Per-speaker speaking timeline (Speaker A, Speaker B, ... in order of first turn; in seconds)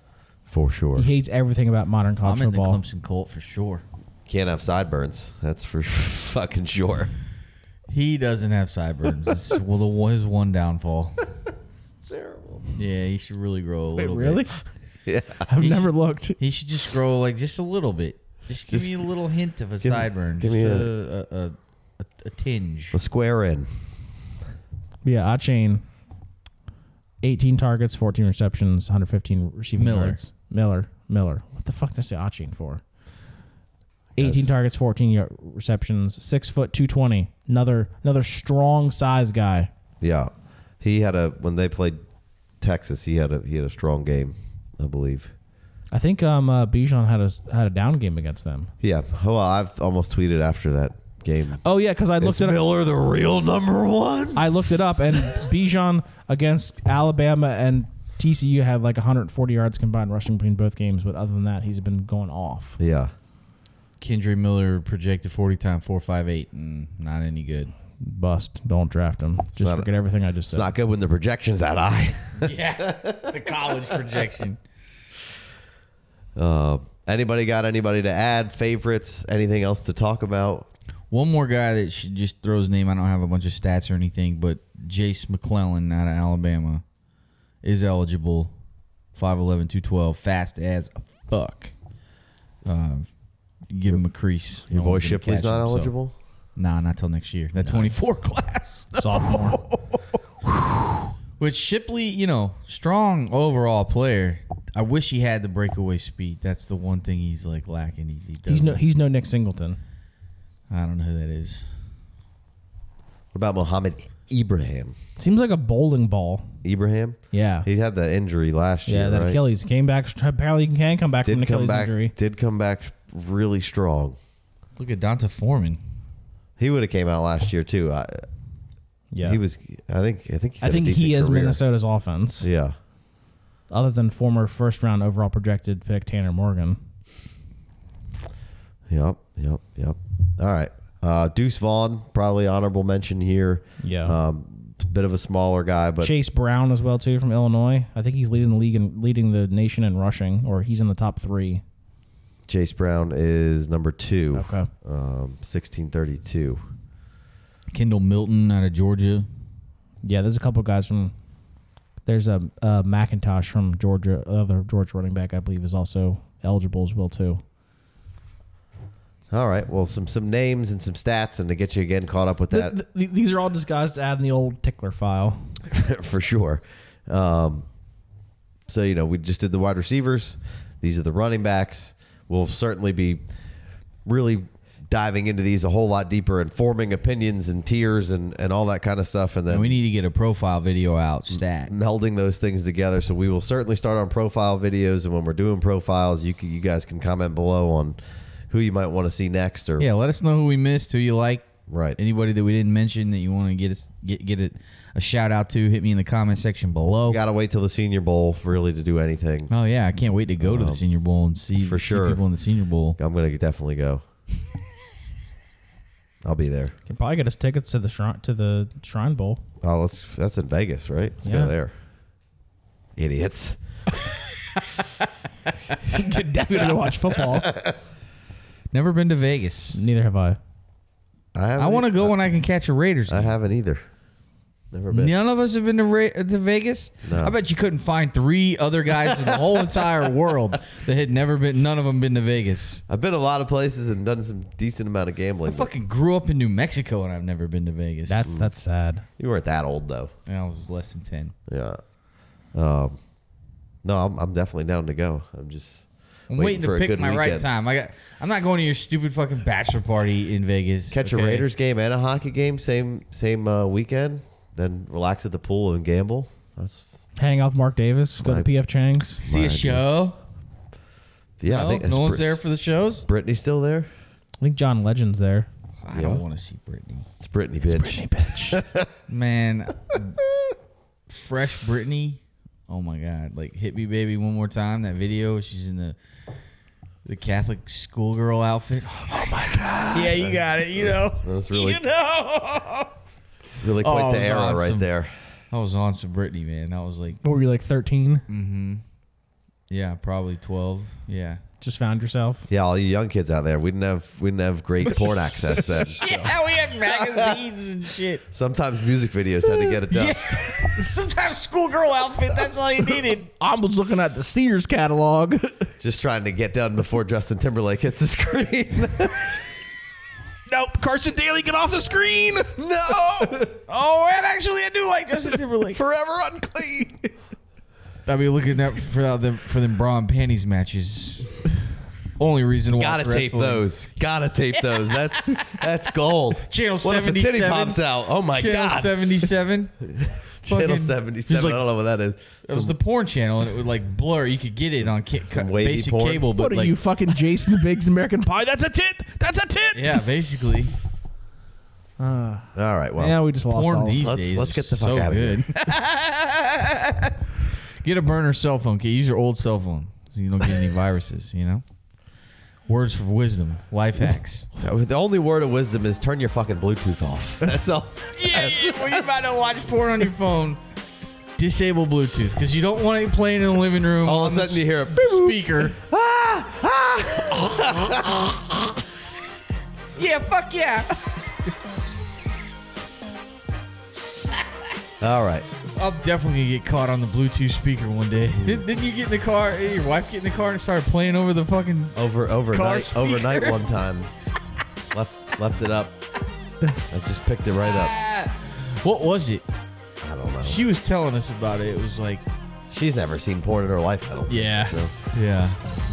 Speaker A: 0.5-1.1, 4.2-7.1, 12.0-12.7, 15.1-15.4, 18.7-18.9, 19.8-20.9, 22.9-23.7, 34.2-34.5, 40.0-42.0, 42.6-45.3, 48.8-51.6, 52.2-54.5, 62.8-63.1, 69.5-69.9, 70.5-73.3, 76.3-80.7, 94.7-96.1, 113.3-115.0, 116.6-119.4, 121.2-124.2, 126.6-128.3, 129.2-131.6, 132.4-132.8, 138.9-146.1, 152.5-156.7, 169.3-172.8, 175.7-177.7, 178.7-183.2, 184.0-189.8, 191.3-198.0, 198.5-199.9, 201.7-202.0, 207.1-209.5, 210.4-210.8, 211.6-212.2, 213.0-214.0, 216.2-216.7, 219.6-221.7, 222.9-223.6, 227.2-227.8, 231.3-232.1, 233.1-233.9, 234.7-235.1, 237.0-237.3, 242.9-245.7, 248.2-248.5, 249.2-250.1, 251.5-251.8, 252.5-253.0, 253.8-257.4, 260.9-266.8, 268.2-268.5, 269.2-269.8, 271.4-272.4, 273.0-273.9, 275.9-276.2, 277.2-278.9, 290.8-291.8, 293.6-295.1, 302.5-307.4, 308.3-310.5, 315.8-319.4, 322.6-323.5, 325.7-327.1, 332.7-342.8, 344.7-346.3, 352.5-353.2, 354.0-355.4, 364.6-369.1, 374.0-378.6, 385.0-385.5, 388.3-388.7, 391.9-394.1, 394.9-395.9, 396.9-397.9, 400.0-400.6, 402.7-404.9
Speaker B: 0.9-2.8, 14.0-14.6, 15.4-16.4, 25.0-25.8, 27.2-32.8, 34.1-39.7, 45.9-48.7, 51.6-52.6, 54.3-62.8, 68.0-70.7, 97.6-97.9, 99.0-99.6, 108.5-109.8, 115.2-116.5, 117.3-117.7, 118.8-122.1, 129.1-129.4, 130.6-132.5, 133.7-136.8, 143.8-144.2, 146.0-151.6, 154.3-154.7, 160.0-161.1, 162.0-167.4, 172.5-175.6, 216.9-219.4, 221.2-221.5, 225.9-227.6, 229.7-230.4, 248.1-249.0, 267.2-269.2, 274.4-275.5, 277.6-278.6, 289.1-290.3, 297.2-298.2, 301.6-302.5, 313.4-315.7, 320.5-322.9, 346.4-350.0, 352.0-354.0
Speaker C: 2.2-3.8, 7.9-11.2, 12.7-14.5, 15.6-23.0, 29.8-30.2, 64.0-67.7, 72.4-74.6, 81.1-86.8, 87.6-88.5, 89.1-91.7, 92.6-96.0, 96.5-100.2, 101.4-108.8, 110.7-111.7, 124.8-125.8, 157.7-159.3, 189.5-191.7, 199.8-207.2, 209.5-213.0, 228.7-229.8, 231.6-233.3, 234.9-242.8, 245.4-248.3, 250.3-251.3, 256.3-261.5, 269.2-270.2, 271.4-273.1, 275.8-277.1, 279.1-280.2, 281.1-285.9, 287.0-292.9, 293.8-294.9, 295.5-297.2, 298.3-298.8, 299.7-301.4, 305.6-308.2, 309.7-313.3, 323.6-325.8, 328.1-331.6, 332.2-333.6, 334.6-335.6, 336.4-339.9, 340.4-341.6, 342.4-346.8, 349.7-350.7, 353.5-357.1, 357.8-361.6, 362.7-364.5, 368.1-370.6, 371.4-375.8, 379.9-381.2, 385.7-393.8, 397.6-399.4, 400.4-402.2, 404.3-405.6